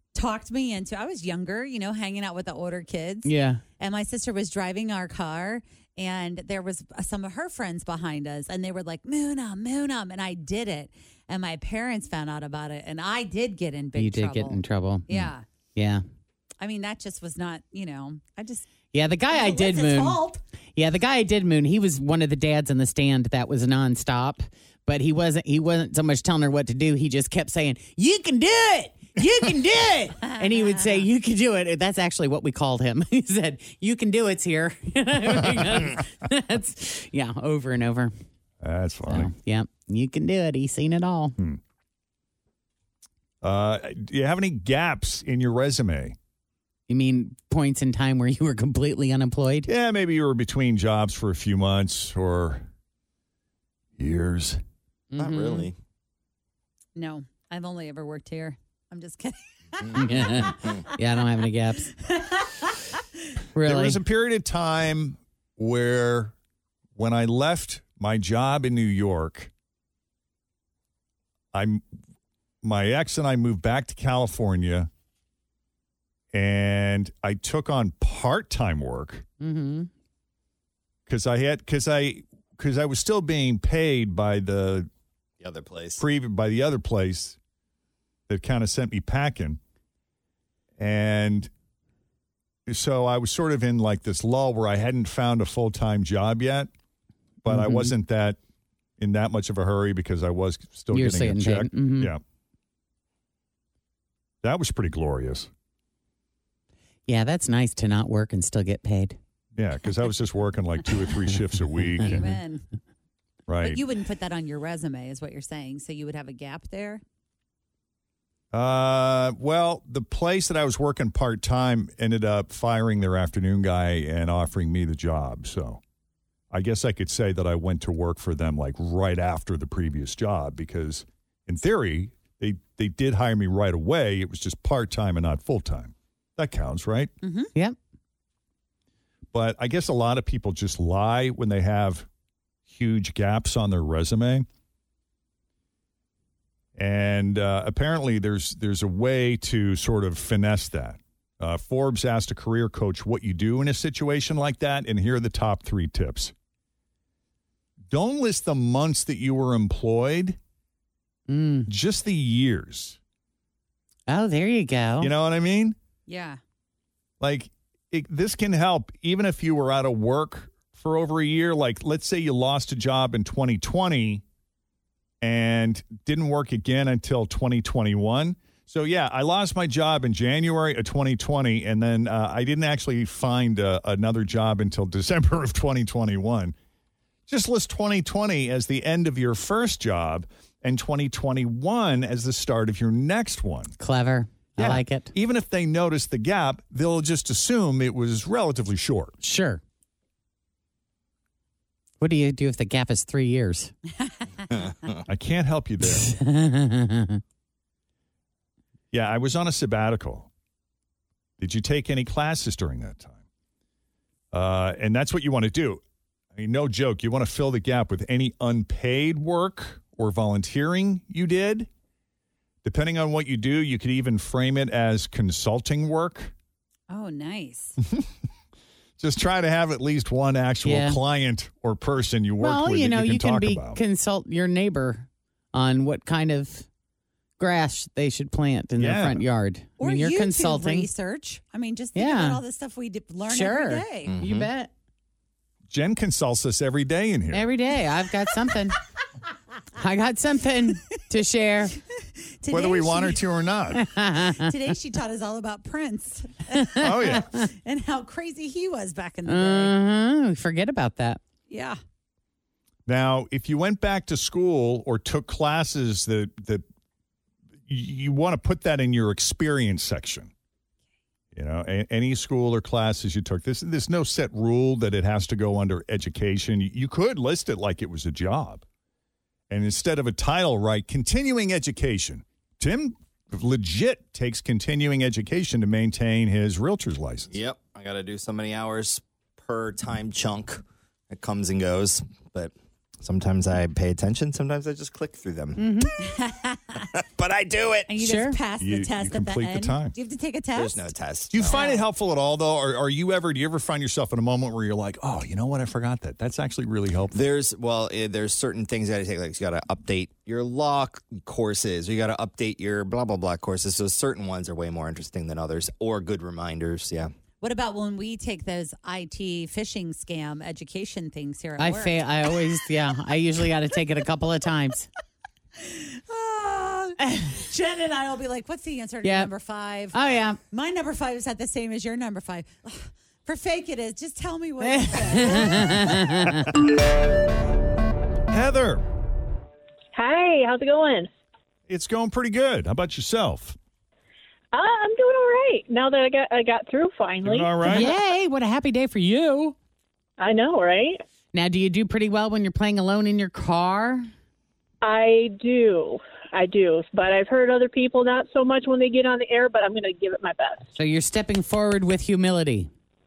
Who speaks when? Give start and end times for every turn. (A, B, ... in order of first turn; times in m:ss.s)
0:00.2-0:15.4 A
0:03.2-0:03.6 B
0:14.0-0:15.1 B
0:15.8-0:16.0 B
0:16.6-0:18.7 A
0:18.9-0:20.2 B
0:19.3-0:20.4 A
0:20.8-0:38.1 B
0:30.2-0:31.0 A
0:38.6-0:39.3 C
0:39.1-0:41.4 B
0:43.4-0:46.2 C
0:46.9-0:49.7 B
0:49.7-0:52.7 C
0:54.0-0:54.6 C
0:55.1-0:55.7 B
0:55.2-0:55.8 D
0:57.0-1:00.5 A
0:59.9-1:01.9 B
1:00.5-1:00.8 D
1:02.1-1:02.7 A
1:03.6-1:04.0 B
1:03.6-1:06.4 C
1:07.0-1:09.5 C
1:11.5-1:11.8 C
1:12.6-1:14.9 C
1:16.3-1:19.3 C
1:19.4-1:19.9 B
1:21.1-1:24.9 C
1:25.4-1:26.0 D
1:26.0-1:27.4 C
1:28.3-1:29.6 C
1:30.8-1:31.5 C
1:32.7-1:36.7 C
1:37.4-1:38.4 C
1:37.5-1:37.9 B
1:39.0-1:42.2 C
1:40.9-1:42.1 B
1:44.4-1:45.5 C
1:47.1-1:49.2 B
1:49.6-1:52.3 C
1:52.0-1:52.3 B
1:52.0-1:52.6 A
1:53.5-1:53.8 C
1:53.6-1:57.0 A
1:58.5-2:05.8 C
2:06.5-2:17.1 C
2:17.2-2:17.5 A
2:19.3-2:22.1 C
2:22.7-2:24.5 C
2:26.8-2:36.3 C
2:37.9-2:40.4 C
2:41.3-2:41.7 B
2:41.7-2:43.0 C
2:44.1-2:45.1 B
2:45.0-2:45.8 C
2:46.1-2:46.4 A
2:47.2-2:54.2 C
2:55.2-3:06.6 C
3:07.3-3:13.8 C
3:13.8-3:15.1 B
3:14.6-3:19.2 C
3:19.2-3:19.6 B
3:22.0-3:23.7 B
3:24.5-3:25.0 D
3:25.1-3:26.1 C
3:25.8-3:27.2 B
3:28.9-3:30.3 C
3:31.4-3:33.2 C
3:34.3-3:35.8 C
3:36.3-3:41.7 C
3:42.6-3:46.3 C
3:46.9-3:47.8 A
3:47.8-3:48.1 C
3:49.0-3:53.8 C
3:50.6-3:51.0 B
3:52.4-3:56.7 B
3:57.4-4:00.9 B
3:58.8-3:59.2 C
3:59.8-4:04.2 A
4:02.0-4:02.4 B
4:03.3-4:04.7 B
4:04.0-4:04.5 D
4:05.7-4:07.5 C
4:07.3-4:08.8 B
4:09.8-4:11.7 B
4:12.4-4:13.2 A
4:12.5-4:13.9 C
4:13.8-4:14.5 B
4:14.4-4:16.9 A
4:16.6-4:17.5 B
4:16.8-4:17.3 C
4:17.6-4:19.8 A
4:19.2-4:21.2 B
4:21.5-4:21.8 A
4:22.9-4:26.6 C
4:27.7-4:30.3 C
4:31.3-4:38.6 C
4:39.5-4:47.3 C
4:47.3-4:55.6 D
4:55.6-4:56.0 B
4:56.0-4:56.8 A
4:57.0-4:57.9 D
4:57.9-5:00.9 A
4:58.0-4:58.4 B
4:58.6-5:00.0 C
5:00.6-5:01.6 D
5:01.3-5:07.2 C
5:01.4-5:01.8 A
5:07.1-5:17.1 D
5:17.4-5:22.0 A
5:21.6-5:24.9 B
5:25.6-5:36.0 A
5:27.1-5:27.3 B
5:29.0-5:29.3 B
5:29.9-5:30.4 B
5:34.6-5:36.6 B
5:38.3-5:38.8 C
5:39.9-5:41.1 E
5:41.7-5:43.6 C
5:44.5-5:47.9 E
5:47.2-5:47.9 C
5:47.6-5:49.6 B
5:50.2-5:51.0 E
5:51.3-5:54.1 B
5:54.8-6:00.7 E
6:00.7-6:02.7 B